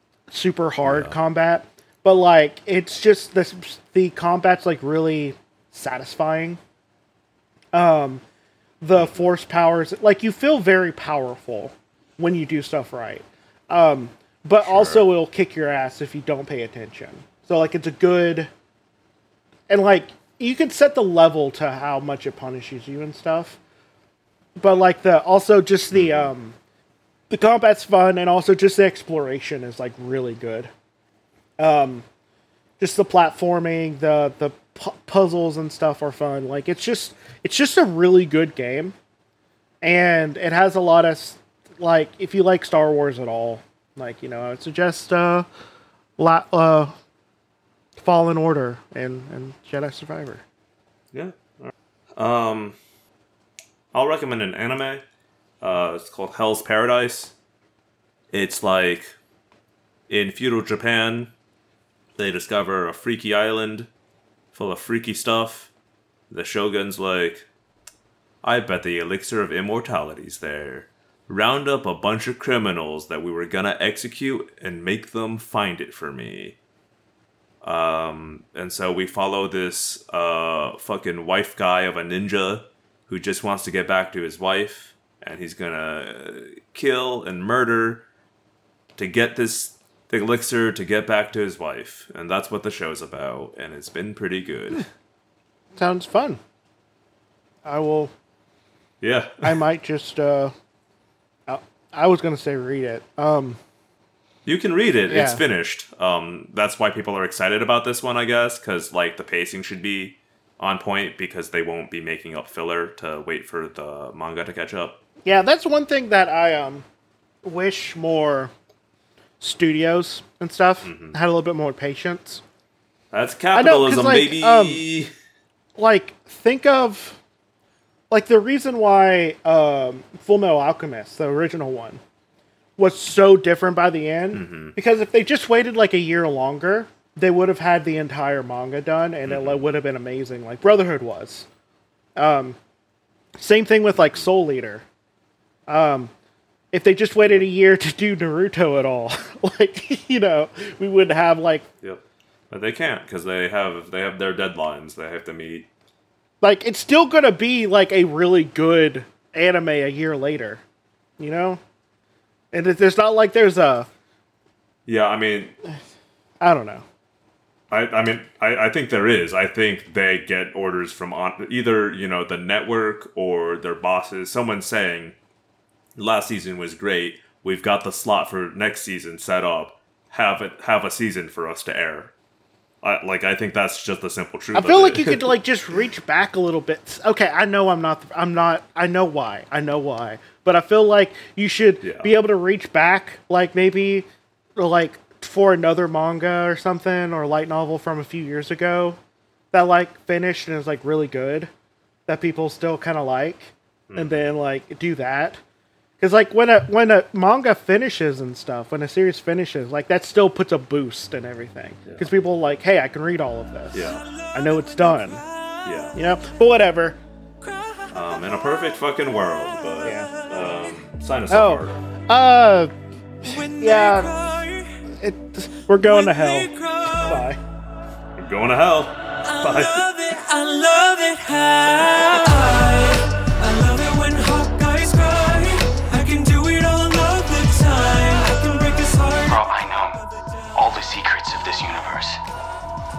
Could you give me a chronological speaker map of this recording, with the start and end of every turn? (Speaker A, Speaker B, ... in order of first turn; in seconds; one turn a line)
Speaker A: 0.3-6.6
Speaker B: 0.8-1.2
Speaker A: 7.7-8.2
Speaker A: 8.8-18.5
Speaker B: 8.9-9.3
Speaker B: 14.6-15.1
Speaker A: 19.7-23.6
Speaker A: 24.6-26.6
Speaker B: 25.9-26.3
Speaker A: 27.3-30.7
Speaker A: 31.6-32.0
Speaker A: 32.8-39.0
Speaker A: 39.8-45.5
Speaker A: 46.2-47.0
Speaker A: 48.0-50.4
Speaker B: 51.1-52.8
Speaker B: 53.9-55.0
Speaker B: 55.6-57.3
Speaker B: 58.3-59.1
Speaker B: 60.1-61.3
Speaker B: 62.2-63.9
Speaker B: 64.5-65.7
Speaker B: 66.3-67.5
Speaker B: 68.4-76.6
Speaker B: 77.6-88.0
Speaker B: 89.0-94.9
Speaker A: 95.8-96.4
Speaker A: 97.7-98.1
Speaker B: 99.0-99.6
Speaker A: 99.4-100.5
Speaker A: 101.5-103.6
Speaker B: 104.5-115.0
Speaker A: 105.1-105.4
Speaker A: 115.2-116.8
Speaker A: 117.4-118.5
Speaker A: 119.4-122.4
Speaker B: 120.8-121.2
Speaker B: 123.1-125.1
Speaker A: 123.5-124.8
Speaker A: 125.8-127.2
Speaker A: 128.1-132.0
Speaker A: 132.8-141.5
Speaker B: 134.3-134.8
Speaker B: 139.2-139.6
Speaker A: 142.2-142.6
Speaker A: 143.4-144.8
Speaker B: 144.0-144.3
Speaker A: 145.7-146.1
Speaker A: 146.7-151.7
Speaker B: 151.8-155.7
Speaker A: 156.4-160.6
Speaker A: 161.2-161.6
Speaker A: 162.5-163.9
Speaker B: 164.9-165.6
Speaker A: 166.4-166.8
Speaker B: 167.7-175.2
Speaker B: 176.0-182.1
Speaker B: 182.8-185.4
Speaker A: 184.5-199.0
Speaker B: 191.8-192.1
Speaker A: 199.5-201.5
Speaker A: 202.1-205.4
Speaker B: 203.9-204.2
Speaker A: 206.0-215.2
Speaker B: 213.7-214.0
Speaker C: 213.8-215.7
Speaker B: 215.7-215.9
Speaker A: 215.9-217.0
Speaker C: 217.4-217.9
Speaker B: 217.9-221.8
Speaker A: 219.8-220.1
Speaker A: 221.3-222.7
Speaker C: 223.2-224.8
Speaker A: 223.3-224.1
Speaker A: 225.0-227.4
Speaker C: 225.8-227.3
Speaker B: 228.2-229.8
Speaker C: 229.2-240.3
Speaker D: 239.3-240.0
Speaker D: 240.5-242.2